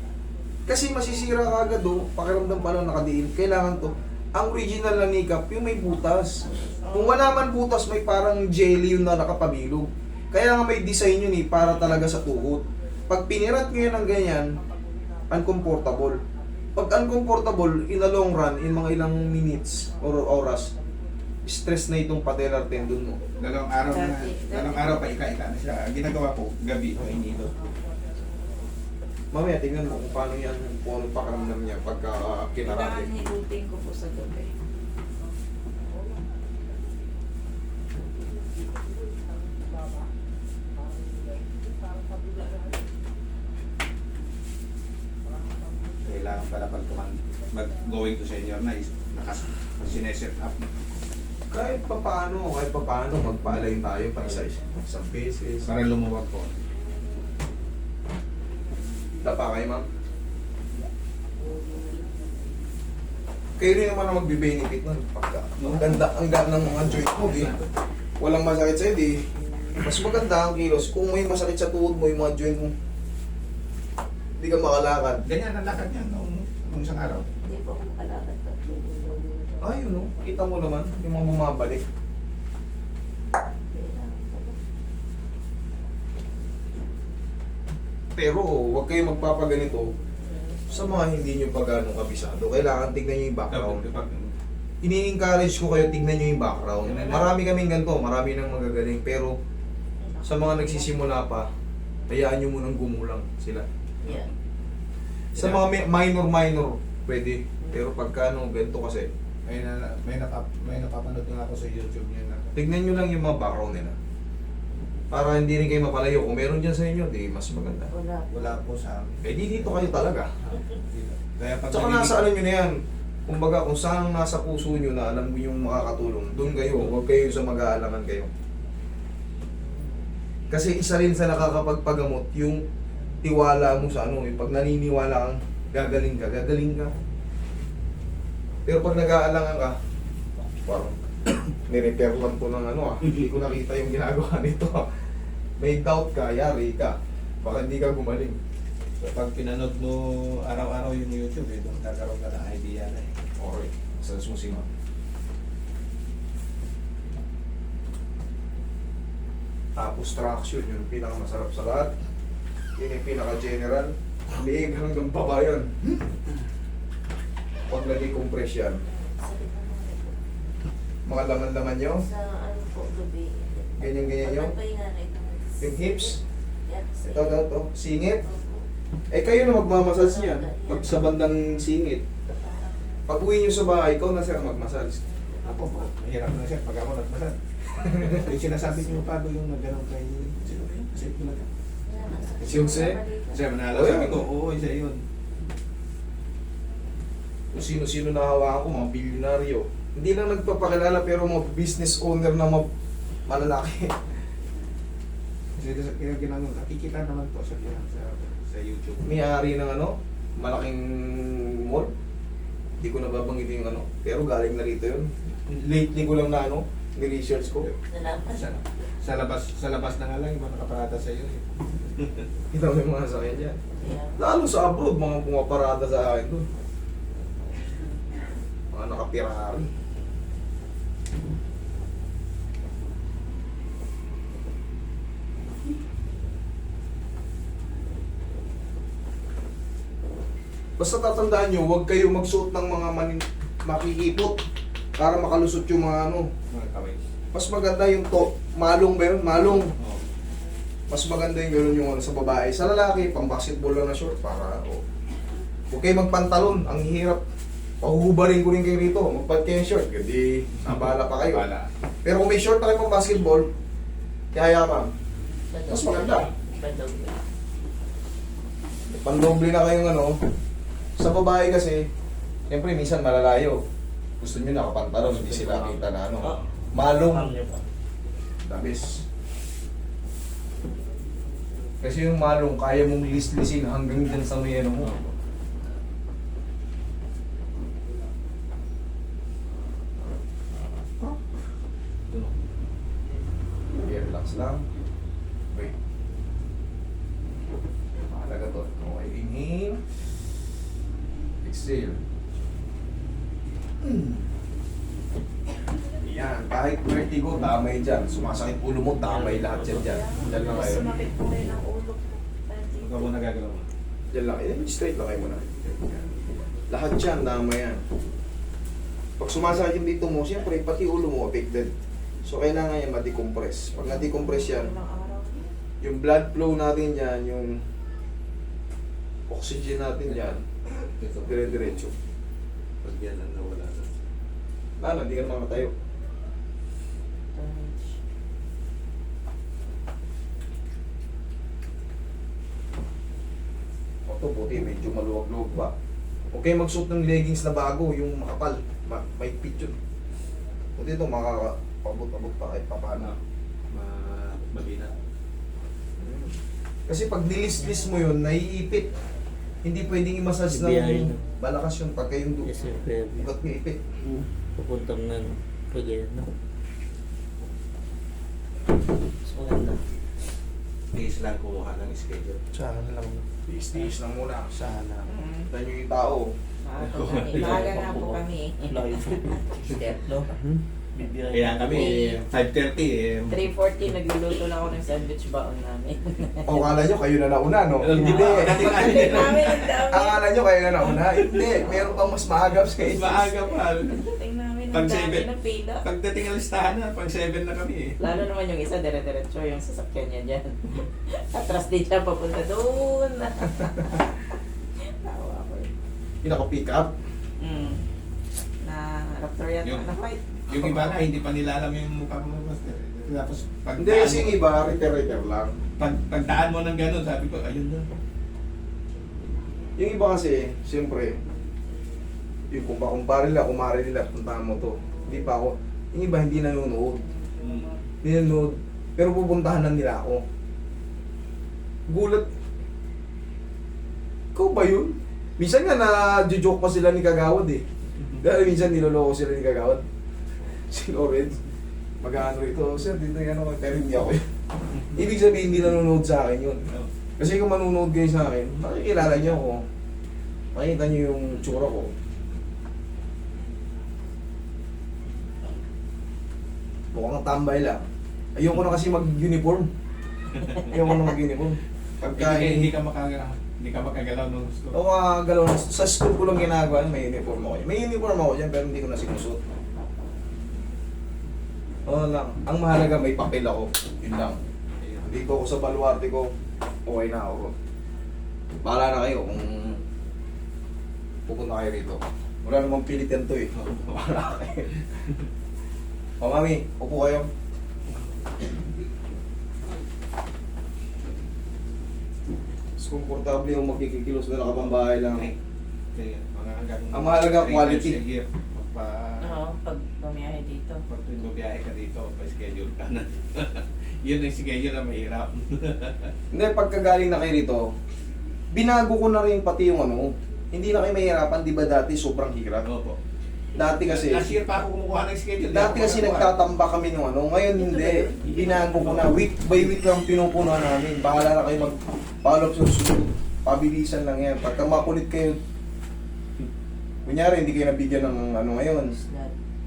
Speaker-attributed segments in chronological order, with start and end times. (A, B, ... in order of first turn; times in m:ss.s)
0:00.7-0:14.5 A
0:06.8-0:07.3 B
0:15.3-0:16.2 A
0:16.8-0:20.7 A
0:21.5-0:23.2 A
0:23.4-0:27.5 C
0:23.9-0:25.0 B
0:29.3-0:33.1 A
0:32.6-0:34.5 B
0:46.0-0:50.7 C
0:51.5-0:55.7 A
0:53.4-0:54.4 C
0:55.6-0:56.5 C
0:59.2-0:59.8 A
1:03.6-1:07.6 A
1:05.6-1:07.7 C
1:08.2-1:09.2 A
1:09.8-1:12.7 A
1:14.4-1:15.2 A
1:15.2-1:17.3 C
1:17.4-1:19.2 B
1:19.6-1:21.8 A
1:23.7-1:24.6 B
1:28.2-1:29.9 A
1:30.7-1:33.9 A
1:33.5-1:34.3 C
1:34.8-1:39.4 A
1:36.8-1:37.4 C
1:40.0-1:40.9 B
1:40.2-1:41.5 A
1:42.1-1:43.6 A
1:44.0-1:44.3 B
1:45.3-1:45.7 C
1:45.4-1:49.1 A
1:47.6-1:47.9 B
1:49.4-1:52.6 C
1:52.6-1:54.0 A
1:55.1-1:57.9 A
1:57.9-1:58.6 B
1:58.3-2:02.2 C
1:59.2-2:00.3 A
2:01.7-2:02.7 A
2:03.3-2:08.3 A
2:10.5-2:12.6 A
2:13.2-2:16.9 A
2:18.7-2:19.8 A
2:20.6-2:21.0 A
2:21.6-2:24.9 A
2:25.6-2:28.4 A
2:29.0-2:33.1 C
2:33.4-2:34.7 A
2:39.8-2:41.9 A
2:42.8-2:45.9 A
2:47.7-2:48.8 A
2:48.9-2:50.2 B
2:51.1-2:52.0 A
2:52.0-2:57.4 B
2:53.8-2:54.5 A
2:55.6-2:56.2 A
2:57.0-2:58.2 A
2:58.2-2:58.7 B
2:59.1-3:02.0 A
2:59.9-3:01.1 B
3:02.3-3:03.0 B
3:03.1-3:05.0 A
3:05.0-3:05.8 B
3:05.4-3:11.5 C
3:07.8-3:08.2 A
3:11.9-3:13.4 B
3:12.4-3:13.0 A
3:13.3-3:15.0 C
3:13.7-3:14.2 A
3:17.5-3:22.7 A
3:23.3-3:24.0 A
3:25.6-3:29.3 C
3:29.0-3:31.9 A
3:32.8-3:37.7 A
3:37.9-3:38.6 B
3:38.3-3:42.3 C
3:42.5-3:43.6 A
3:43.8-3:44.2 B
3:44.2-3:46.4 A
3:48.7-3:49.7 A
4:00.8-4:04.4 A
4:05.0-4:06.3 A
4:06.5-4:07.0 C
4:07.3-4:09.7 A
4:09.8-4:10.0 C
4:10.9-4:14.8 A
4:15.7-4:17.2 A
4:17.8-4:21.5 A
4:20.6-4:21.7 C
4:22.0-4:23.5 A
4:24.3-4:24.9 A
4:25.5-4:27.2 B
4:25.7-4:26.3 A
4:28.9-4:30.2 A
4:31.0-4:31.9 A
4:32.5-4:33.6 A
4:34.2-4:37.4 A
4:35.1-4:37.6 D
4:38.4-4:39.0 A
4:41.8-4:45.0 A
4:44.8-4:45.1 C
4:52.1-4:52.3 C
4:53.8-4:54.6 A
4:58.1-4:59.8 A
5:01.4-5:02.0 A
5:03.8-5:04.2 A
5:06.0-5:10.9 A
5:09.0-5:10.7 C
5:09.7-5:13.1 B
5:12.8-5:13.7 C
5:14.1-5:16.1 A
5:16.7-5:17.8 A
5:19.2-5:21.7 A
5:22.2-5:24.7 A
5:23.8-5:25.5 B
5:25.8-5:27.6 A
5:29.3-5:30.4 A
5:30.1-5:31.9 C
5:31.3-5:31.9 A
5:32.8-5:33.9 C
5:34.8-5:35.7 A
5:37.4-5:38.0 B
5:44.1-5:45.7 A
5:46.3-5:49.8 A
5:50.8-5:53.1 A
5:53.7-5:54.9 C
5:56.0-5:56.4 A
5:56.9-5:58.9 A
5:59.6-6:02.6 A
6:00.5-6:01.2 D
6:02.4-6:03.3 D
6:03.2-6:03.8 A
6:04.1-6:06.3 D
6:09.2-6:09.8 D
6:10.9-6:12.5 C
6:12.6-6:14.6 A
6:14.5-6:15.1 C
6:15.1-6:15.5 B
6:15.5-6:16.3 A
6:16.6-6:20.0 B
6:16.8-6:17.7 C
6:17.3-6:22.1 D
6:21.3-6:23.4 C
6:21.7-6:22.2 B
6:23.3-6:26.6 B
6:26.4-6:29.3 A
6:27.8-6:29.8 C
6:27.9-6:30.2 B
6:29.9-6:33.3 A
6:30.8-6:31.6 C
6:31.5-6:32.1 B
6:32.7-6:34.0 C
6:33.8-6:35.9 B
6:34.7-6:35.3 C
6:35.8-6:38.0 C
6:38.0-6:45.7 B
6:46.2-6:46.9 A
6:47.4-6:47.8 B
6:48.6-6:50.2 B
6:49.6-6:49.9 C
6:50.5-6:54.4 C
6:50.5-6:50.9 A
6:53.8-6:55.5 A
6:55.8-6:57.9 C
6:59.8-7:01.2 A
7:02.5-7:07.1 A
7:07.4-7:07.8 C
7:08.0-7:10.2 A
7:11.9-7:12.3 A
7:14.4-7:17.6 A
7:18.2-7:19.8 A
7:20.7-7:21.4 A
7:22.0-7:24.3 A
7:24.8-7:26.6 A
7:26.6-7:26.9 C
7:27.2-7:29.7 A
7:28.7-7:29.4 C
7:30.5-7:31.9 A
7:36.9-7:37.8 A
7:38.4-7:39.7 A
7:40.3-7:40.7 C
7:40.5-7:42.7 A
7:42.1-7:44.8 C
7:44.7-7:49.4 A
7:51.9-7:54.4 A
7:54.8-7:55.3 C
7:55.0-7:56.3 A
7:56.9-7:57.5 A
7:58.6-7:59.8 A
8:01.3-8:04.7 A
8:03.5-8:04.2 C
8:04.8-8:05.2 C
8:06.2-8:07.3 A
8:12.8-8:15.3 A
8:14.4-8:15.4 C
8:15.9-8:19.3 C
8:16.9-8:18.0 A
8:19.2-8:20.8 B
8:20.9-8:26.1 C
8:26.3-8:27.6 A
8:28.5-8:32.6 A
8:32.6-8:33.0 C
8:33.6-8:34.3 A
8:33.6-8:36.5 C
8:35.5-8:45.4 A
8:37.5-8:38.5 B
8:38.3-8:39.2 C
8:47.1-8:49.0 A
8:48.8-8:49.3 B